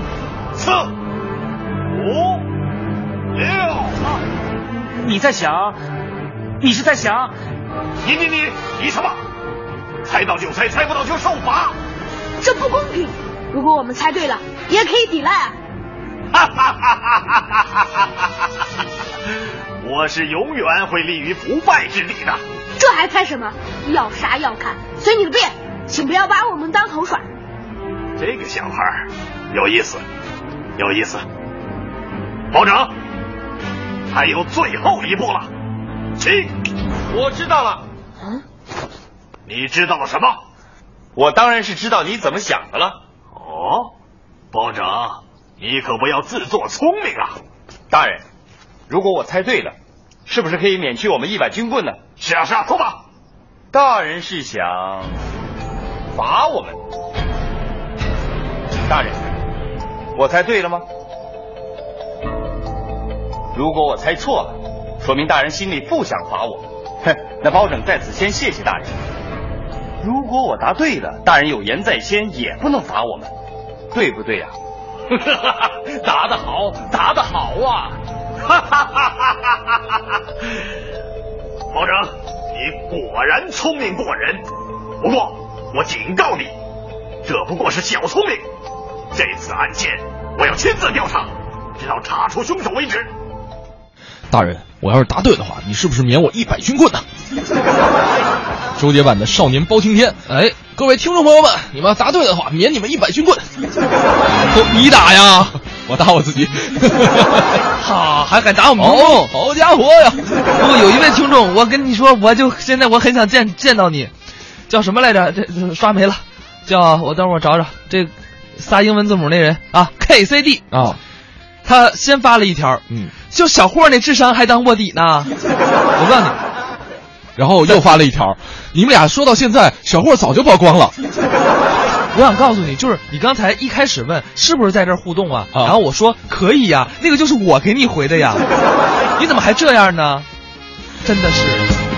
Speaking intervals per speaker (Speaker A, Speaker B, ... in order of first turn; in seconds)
Speaker A: 0.5-0.9, 1.9-2.4, 3.4-4.0, 8.0-9.2, 10.0-11.7, 16.4-17.3, 19.8-22.4, 28.2-30.0, 30.8-31.2, 32.5-32.9, 34.1-35.5, 36.2-36.5, 39.5-40.4, 43.4-43.7, 44.5-47.4, 52.2-53.0, 78.5-79.3, 81.7-84.4, 85.0-86.5, 87.2-88.4, 89.1-93.1
Speaker B: 4.9-5.8, 6.6-7.3, 41.1-43.0, 47.9-48.2, 48.9-49.7, 50.3-52.0, 53.7-55.1, 56.1-56.8, 58.9-59.2, 60.1-60.8, 63.5-68.9, 70.0-73.3, 73.9-74.5, 76.0-77.9
Speaker C: 12.4-15.6, 22.8-27.2
Speaker D: 94.3-97.0, 98.8-103.5, 104.7-107.6, 108.8-110.2, 120.7-121.0, 127.4-130.9
Speaker E: 100.3-100.6, 104.5-105.5, 107.8-109.3, 110.5-114.1, 114.7-120.7, 121.6-125.3, 126.0-126.4, 132.1-138.5, 139.2-140.3, 141.0-141.7